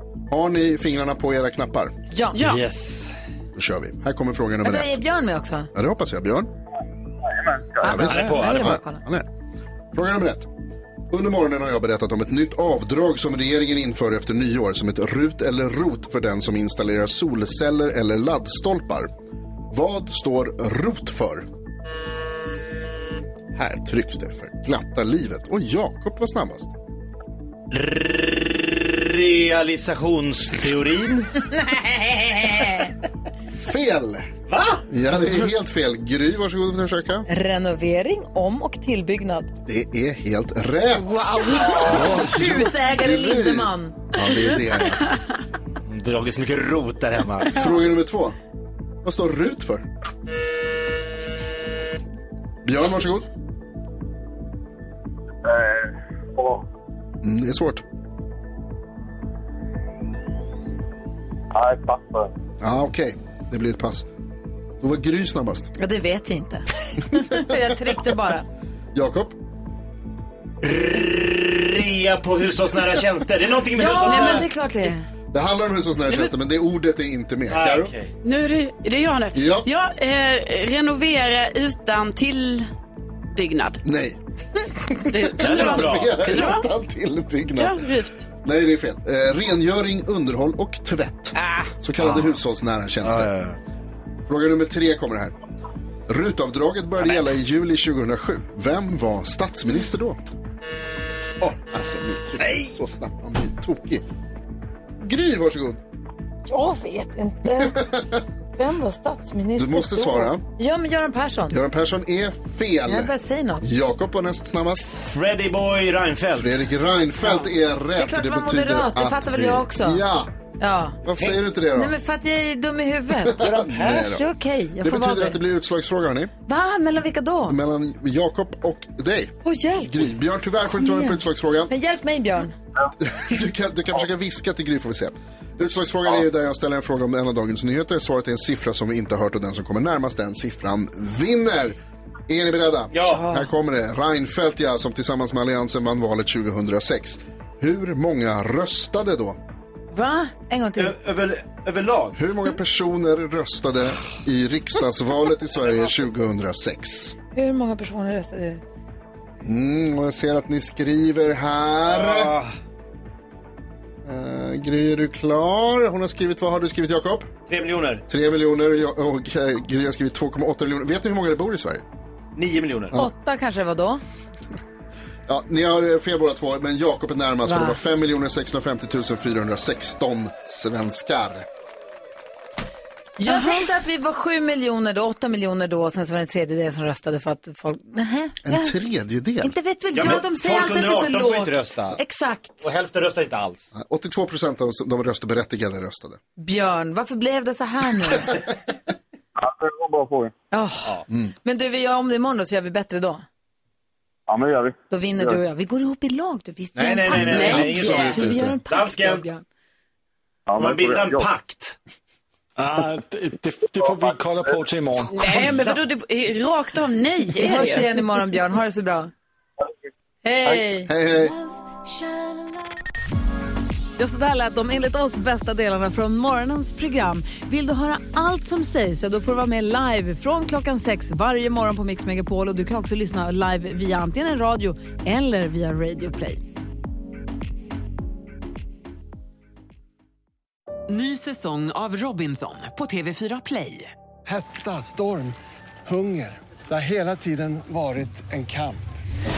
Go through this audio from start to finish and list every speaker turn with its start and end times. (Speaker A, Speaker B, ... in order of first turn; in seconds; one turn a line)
Speaker A: 0.3-2.0
Speaker B: 2.1-2.4
Speaker C: 2.3-2.6
Speaker D: 2.4-3.1
Speaker A: 3.5-5.0
Speaker B: 4.6-5.7
Speaker A: 5.7-6.5
Speaker E: 7.4-7.9
Speaker B: 7.8-9.0
Speaker A: 7.8-9.3
Speaker D: 8.1-8.8
Speaker A: 9.9-10.5
Speaker A: 11.1-19.1
Speaker A: 19.7-21.5
Speaker A: 23.5-26.7
Speaker D: 27.7-32.9
Speaker B: 32.6-32.9
Speaker A: 33.6-34.3
Speaker D: 34.5-34.9
Speaker A: 34.9-37.3
Speaker B: 37.3-39.5
Speaker A: 39.7-45.1
Speaker B: 41.1-44.2
Speaker C: 41.5-41.9
Speaker D: 45.9-47.7
Speaker A: 47.5-48.4
Speaker A: 49.0-49.9
Speaker A: 52.6-53.3
Speaker E: 55.5-56.6
Speaker A: 57.2-57.8
Speaker E: 61.5-62.3
Speaker A: 62.6-64.1
Speaker A: 64.8-65.7
Speaker B: 65.8-68.5
Speaker A: 69.0-69.4
Speaker D: 70.6-74.5
Speaker B: 73.8-75.1
Speaker A: 75.3-77.9
Speaker D: 77.5-78.1
Speaker C: 78.2-82.7
Speaker A: 79.3-79.7
Speaker C: 83.3-83.8
Speaker A: 83.8-84.2
Speaker A: 84.7-87.9
Speaker C: 85.1-86.7
Speaker D: 85.3-86.3
Speaker C: 87.6-88.2
Speaker A: 88.4-93.3
Speaker C: 91.4-91.7
Speaker D: 92.0-92.4
Speaker D: 93.0-93.6
Speaker A: 94.3-95.3
Speaker A: 96.1-100.2
Speaker A: 101.4-104.0
Speaker D: 102.4-102.7
Speaker A: 105.0-105.8
Speaker B: 106.5-108.0
Speaker A: 107.6-108.1
Speaker B: 108.6-111.6
Speaker A: 109.6-110.5
Speaker A: 111.5-114.8
Speaker B: 112.9-113.7
Speaker D: 114.8-116.7
Speaker A: 116.4-120.3
Speaker B: 117.2-120.0
Speaker B: 120.6-121.0
Speaker A: 121.0-122.0
Speaker B: 121.7-123.4
Speaker A: 123.2-124.3
Speaker D: 123.4-124.2
Speaker B: 124.1-125.4
Speaker A: 124.8-126.3
Speaker B: 126.5-127.6
Speaker A: 127.5-131.7
Speaker B: 129.4-132.6
Speaker A: 133.0-149.4
Speaker D: 142.9-143.2
Speaker B: 143.2-143.5
Speaker B: 149.9-151.0
Speaker D: 150.8-152.2
Speaker A: 152.2-157.2
Speaker B: 157.3-158.6
Speaker A: 159.4-162.4
Speaker D: 161.8-162.5
Speaker A: 164.0-167.3
Speaker D: 167.5-168.0
Speaker A: 168.1-171.8
Speaker D: 172.3-173.0
Speaker B: 172.9-174.0
Speaker A: 175.3-181.5
Speaker B: 177.5-177.8
Speaker B: 183.2-188.8
Speaker C: 183.3-183.7
Speaker A: 188.4-189.6
Speaker B: 189.4-192.6
Speaker D: 189.9-192.0
Speaker D: 192.6-193.7
Speaker A: 193.7-196.2
Speaker B: 196.4-198.3
Speaker E: 199.4-200.3
Speaker B: 200.5-203.2
Speaker E: 204.3-205.4
Speaker B: 204.9-209.4
Speaker D: 206.8-209.2
Speaker A: 207.1-208.6
Speaker C: 207.3-207.7
Speaker E: 210.5-211.3
Speaker D: 210.6-211.8
Speaker F: 212.6-215.7
Speaker C: 215.1-217.9
Speaker B: 217.4-219.1
Speaker B: 220.2-220.9
Speaker A: 220.9-221.3
Speaker B: 224.0-236.4
Speaker G: 240.9-243.9
Speaker H: 244.2-249.0